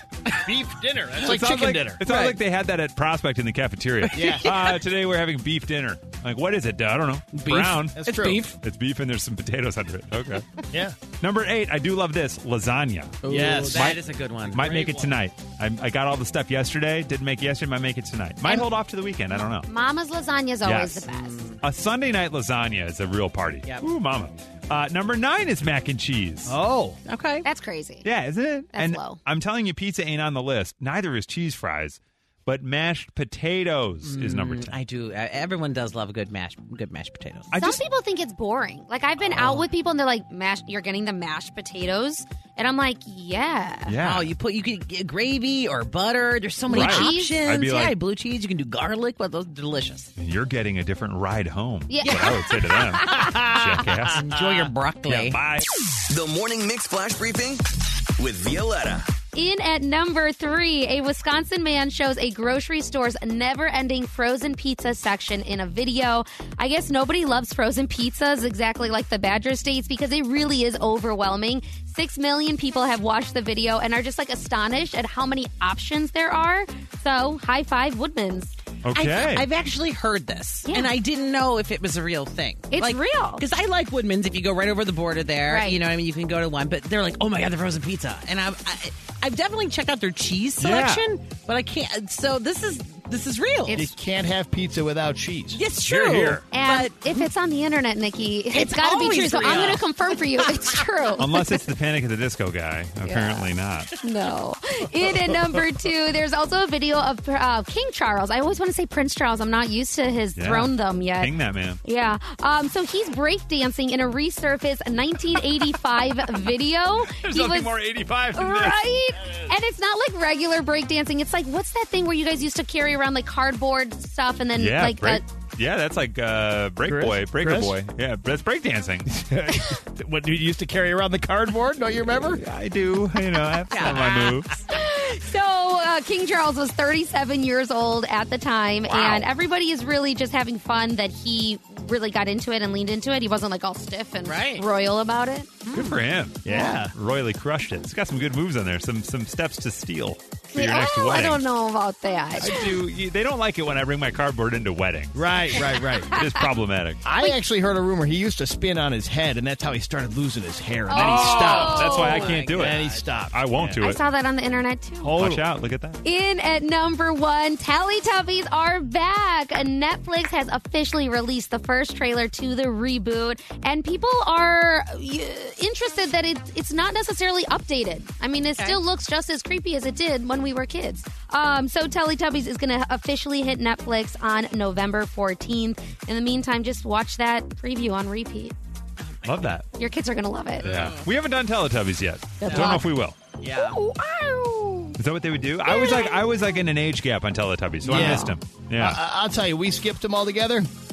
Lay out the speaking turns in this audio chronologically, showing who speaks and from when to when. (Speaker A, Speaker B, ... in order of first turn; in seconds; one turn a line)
Speaker A: 0.4-2.0
Speaker B: 1.2-8.1
Speaker C: 2.0-2.4
Speaker C: 4.0-4.7
Speaker A: 4.1-4.6
Speaker C: 7.3-8.6
Speaker A: 7.9-8.5
Speaker B: 8.6-10.5
Speaker A: 10.7-11.0
Speaker B: 11.2-19.7
Speaker C: 13.2-15.2
Speaker A: 13.3-14.0
Speaker D: 18.4-18.7
Speaker D: 19.3-21.4
Speaker B: 20.6-21.1
Speaker C: 21.1-21.6
Speaker B: 21.6-26.6
Speaker A: 26.5-27.0
Speaker C: 27.1-27.5
Speaker D: 27.4-28.1
Speaker B: 28.0-34.8
Speaker D: 28.7-29.2
Speaker C: 34.0-37.5
Speaker B: 37.5-37.8
Speaker D: 37.5-44.0
Speaker B: 39.2-39.6
Speaker B: 43.9-44.3
Speaker C: 44.0-50.1
Speaker D: 46.7-47.4
Speaker B: 46.7-48.0
Speaker B: 50.2-55.7
Speaker D: 51.9-53.4
Speaker C: 52.0-52.3
Speaker C: 53.1-55.4
Speaker E: 56.1-57.6
Speaker E: 58.2-59.1
Speaker D: 59.3-78.6
Speaker B: 78.8-79.5
Speaker C: 78.9-93.8
Speaker D: 80.7-80.9
Speaker D: 82.7-83.4
Speaker D: 85.5-85.8
Speaker B: 90.6-91.0
Speaker D: 93.7-93.9
Speaker A: 93.7-95.6
Speaker C: 95.5-97.3
Speaker B: 95.8-96.4
Speaker D: 96.5-101.5
Speaker C: 98.5-100.8
Speaker B: 99.5-99.8
Speaker B: 101.2-103.9
Speaker D: 103.0-117.7
Speaker B: 110.3-111.8
Speaker B: 117.1-118.8
Speaker D: 118.3-125.2
Speaker B: 124.6-129.1
Speaker A: 126.9-127.8
Speaker A: 129.1-132.4
Speaker B: 132.3-134.6
Speaker C: 133.7-134.4
Speaker D: 134.7-145.6
Speaker B: 138.9-139.2
Speaker C: 138.9-139.2
Speaker C: 144.2-144.7
Speaker C: 145.7-146.0
Speaker B: 145.7-151.4
Speaker A: 146.4-146.9
Speaker D: 150.5-152.7
Speaker B: 152.4-155.2
Speaker A: 152.4-152.7
Speaker A: 155.1-156.2
Speaker B: 156.0-157.0
Speaker A: 157.1-163.8
Speaker D: 157.1-157.4
Speaker D: 160.9-162.4
Speaker B: 160.9-164.0
Speaker C: 161.5-163.1
Speaker D: 163.8-165.3
Speaker A: 165.0-165.5
Speaker B: 165.1-166.0
Speaker D: 166.0-188.6
Speaker C: 178.5-178.8
Speaker C: 189.0-189.5
Speaker B: 189.2-189.7
Speaker D: 189.8-190.6
Speaker C: 190.6-191.1
Speaker B: 190.6-193.2
Speaker D: 192.4-192.8
Speaker C: 193.4-193.8
Speaker D: 193.9-194.8
Speaker B: 195.0-199.0
Speaker D: 195.7-196.3
Speaker A: 197.8-200.7
Speaker D: 197.9-198.3